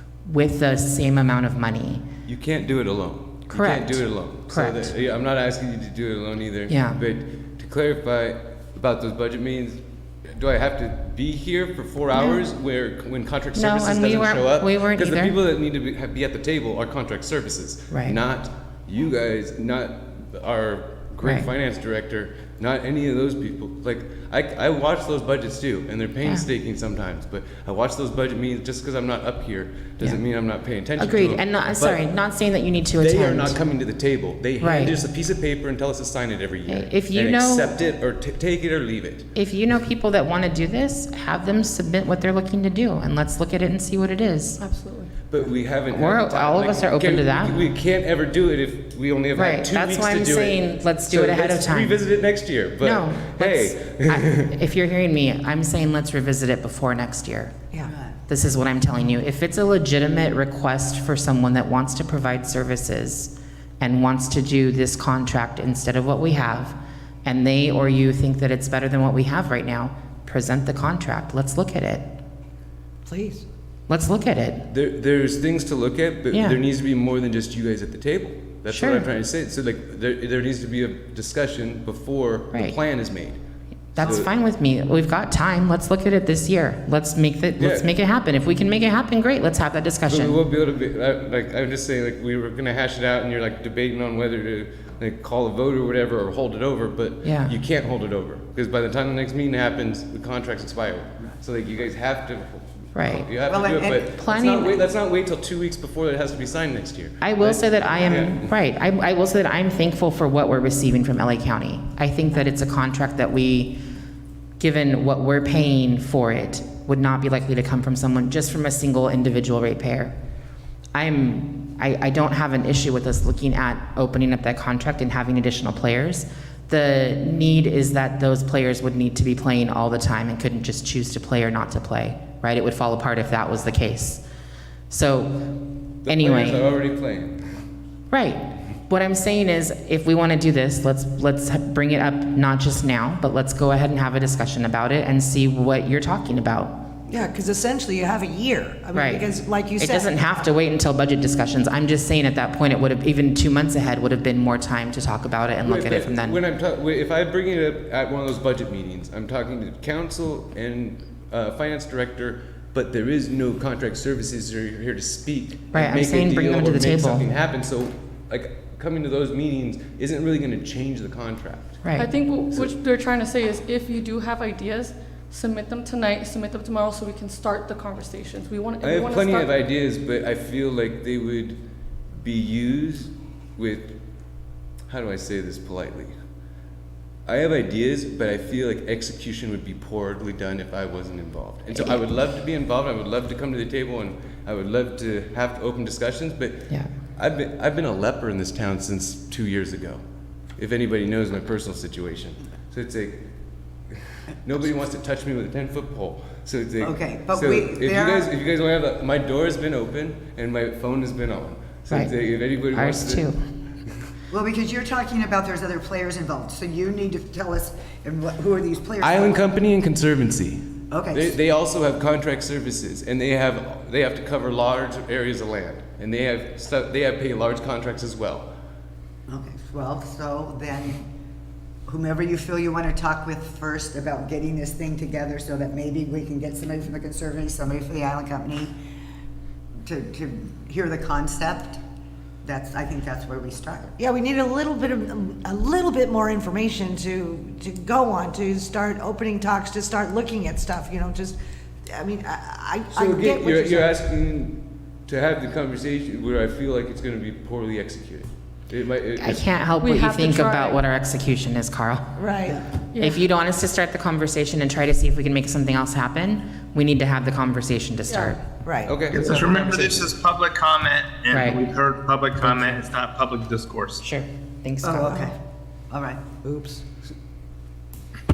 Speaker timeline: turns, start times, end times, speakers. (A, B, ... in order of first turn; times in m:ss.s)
0:00.3-0:02.0 A
0:02.3-0:09.8 B
0:03.5-0:04.9 A
0:06.7-0:07.0 A
0:10.3-0:32.0 B
0:13.6-0:15.4 A
0:17.9-0:18.2 A
0:21.2-0:21.5 A
0:31.0-0:33.6 A
0:33.0-0:39.3 B
0:34.6-0:35.0 A
0:36.7-0:37.8 A
0:39.4-0:44.6 A
0:44.6-0:45.1 C
0:45.3-0:54.5 B
0:45.9-0:47.6 A
0:49.4-0:52.0 A
0:52.8-0:57.6 A
0:57.8-0:58.2 D
0:58.3-1:12.1 A
1:13.1-1:13.4 E
1:13.9-1:14.7 A
1:14.7-1:23.4 B
1:16.3-1:16.6 A
1:18.7-1:19.1 A
1:24.0-1:24.3 B
1:24.0-1:30.4 A
1:27.6-1:27.9 B
1:30.1-1:48.5 B
1:37.2-1:37.5 A
1:42.9-1:43.3 A
1:43.5-1:44.1 D
1:44.1-1:44.8 A
1:47.2-1:53.8 A
1:54.6-2:00.1 A
2:01.0-2:14.2 A
2:14.9-2:16.7 A
2:16.0-2:17.4 B
2:18.1-2:26.9 A
2:27.1-2:30.2 E
2:29.0-2:29.3 A
2:29.8-2:36.4 A
2:35.6-2:51.9 B
2:45.7-2:47.2 A
2:52.0-2:59.5 C
2:58.8-3:01.6 B
3:02.2-3:04.0 B
3:04.9-3:06.1 B
3:07.3-3:20.0 B
3:11.7-3:12.0 A
3:20.6-3:23.2 B
3:24.4-3:33.3 B
3:26.8-3:28.3 D
3:32.7-3:33.5 A
3:34.3-3:39.4 D
3:39.0-3:48.5 B
3:40.9-3:41.4 D
3:49.3-3:51.0 D
3:51.9-3:58.8 D
3:59.8-4:01.8 D
4:02.4-4:04.0 D
4:04.0-4:11.4 E
4:11.9-4:13.9 E
4:12.9-4:19.4 B
4:19.2-4:28.4 A
4:19.8-4:20.8 C
4:22.2-4:22.6 E
4:22.9-4:23.3 C
4:28.1-4:28.4 C
4:28.6-4:29.1 E
4:28.8-4:30.2 B
4:29.1-4:34.0 F
4:31.3-4:31.6 A
4:34.0-4:35.3 A
4:34.8-4:35.4 D
4:35.9-4:36.3 D
4:36.4-4:36.8 E